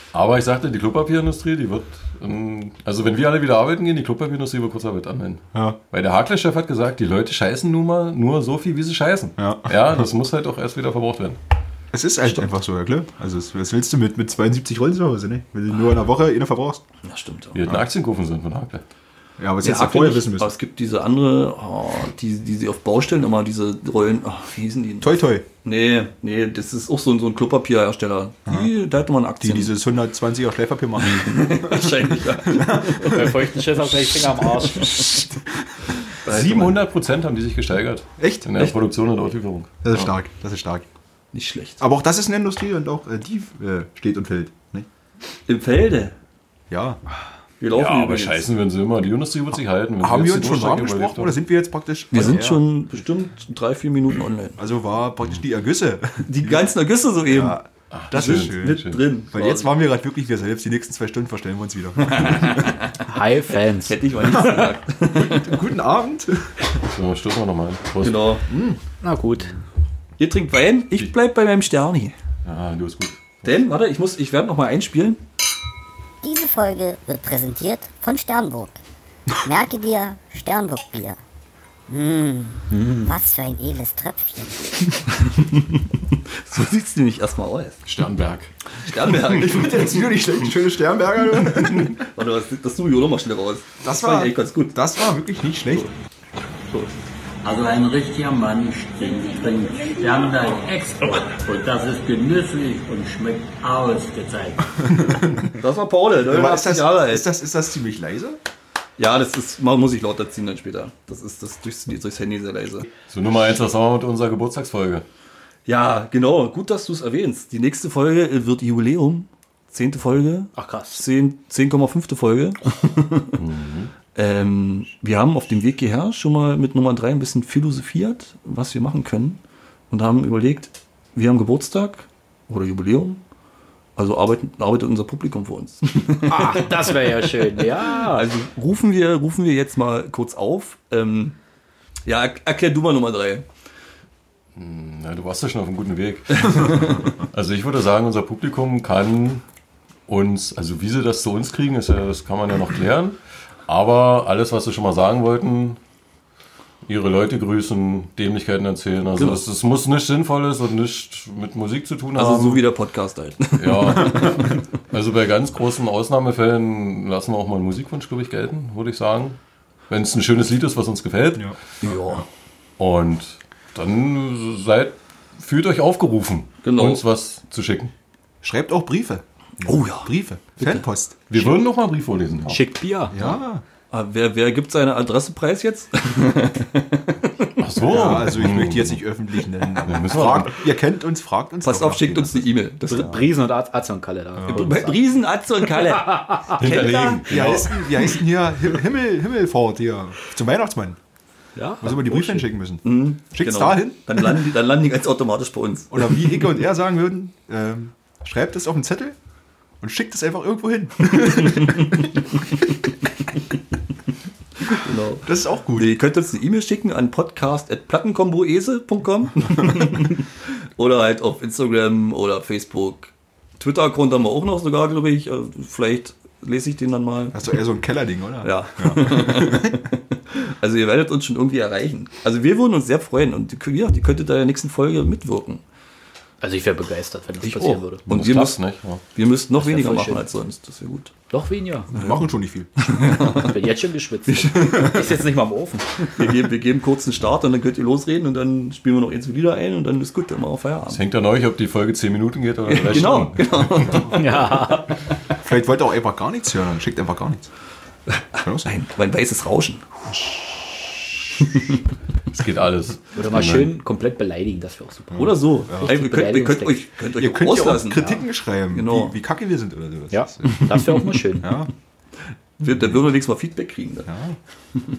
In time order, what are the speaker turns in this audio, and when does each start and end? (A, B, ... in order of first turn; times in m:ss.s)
0:00.1-0:11.4 A
0:05.5-0:05.8 B
0:09.4-0:10.1 B
0:11.9-0:16.8 B
0:17.0-0:17.6 C
0:17.6-0:18.8 A
0:19.4-0:20.5 B
0:19.6-0:29.8 C
0:25.0-0:25.5 B
0:28.5-0:28.7 B
0:29.4-0:33.4 B
0:31.0-0:33.3 C
0:33.0-0:35.1 D
0:34.7-0:35.9 B
0:36.2-0:36.8 C
0:36.3-0:40.1 A
0:38.2-0:38.5 B
0:39.8-0:40.9 B
0:41.3-0:41.8 C
0:41.8-0:44.9 B
0:45.5-0:46.1 C
0:46.7-0:47.0 B
0:47.6-0:48.4 C
0:47.7-0:51.4 A
0:50.0-0:52.7 B
0:52.1-0:54.6 C
0:54.6-1:02.8 B
0:56.3-0:57.6 C
0:57.9-0:59.0 A
0:58.1-0:59.7 C
1:02.1-1:02.7 C
1:03.0-1:04.6 D
1:03.8-1:05.6 C
1:04.2-1:06.7 B
1:06.8-1:08.3 A
1:08.0-1:08.4 C
1:08.5-1:08.8 B
1:09.0-1:09.5 D
1:10.2-1:12.2 C
1:12.4-1:13.5 A
1:13.4-1:15.2 C
1:16.2-1:18.8 E
1:19.4-1:21.2 E
1:21.9-1:24.9 E
1:22.8-1:23.0 D
1:25.4-1:25.6 C
1:26.4-1:27.8 C
1:27.9-1:28.5 A
1:28.8-1:30.0 C
1:29.1-1:32.0 B
1:31.9-1:34.8 C
1:33.8-1:35.9 B
1:37.4-1:44.8 F
1:44.8-1:45.5 B
1:45.6-1:47.3 C
1:46.2-1:48.4 B
1:49.0-1:52.8 C
1:53.1-1:55.0 A
1:55.7-2:03.4 C
2:00.6-2:01.0 D
2:03.4-2:03.9 A
2:04.2-2:13.2 C
2:14.0-2:21.4 C
2:16.2-2:18.2 D
2:22.1-2:23.5 C
2:24.6-2:29.4 A
2:30.1-2:35.8 A
2:36.8-2:42.6 A
2:39.2-2:39.4 C
2:42.2-2:44.4 C
2:43.6-2:49.4 A
2:49.9-2:51.5 A
2:51.8-2:52.3 C
2:52.8-2:57.9 A
2:56.6-2:57.0 C
2:58.4-3:01.2 B
2:59.6-3:00.8 C
3:01.3-3:03.4 A
3:02.5-3:03.1 D
3:03.1-3:03.6 B
3:03.9-3:07.5 C
3:07.6-3:09.0 A
3:07.9-3:13.2 B
3:09.8-3:10.6 A
3:11.6-3:13.3 C
3:12.9-3:15.0 D
3:14.4-3:14.7 B
3:14.5-3:17.2 C
3:16.1-3:16.9 D
3:16.5-3:17.9 A
3:17.3-3:21.0 B
3:21.6-3:22.4 D
3:21.8-3:24.2 B
3:22.1-3:26.6 C
3:25.9-3:29.2 B
3:29.8-3:32.5 B
3:31.2-3:32.0 C
3:34.6-3:47.5 C
3:35.2-3:36.0 B
3:47.3-3:49.8 B
3:48.4-3:55.6 C
3:56.4-3:58.0 D
3:57.4-4:01.1 C
3:58.1-3:59.0 A
3:59.6-4:00.3 D
4:01.3-4:02.0 D
4:01.9-4:02.7 B
4:02.8-4:03.6 C
4:03.2-4:06.1 D
4:04.3-4:05.1 C
4:06.0-4:11.0 C
4:10.9-4:14.2 A
4:12.7-4:14.4 C
4:14.1-4:15.0 D
4:15.4-4:17.5 B
4:18.4-4:18.8 B
4:18.4-4:19.9 C
4:22.3-4:23.7 A
4:23.2-4:26.9 D
4:25.1-4:25.9 B
4:25.2-4:29.2 C
4:27.2-4:30.7 B
4:30.1-4:31.5 D
4:30.6-4:31.0 C
4:31.4-4:31.7 B
4:32.6-4:34.1 C
4:32.7-4:33.0 B
4:34.1-4:34.4 B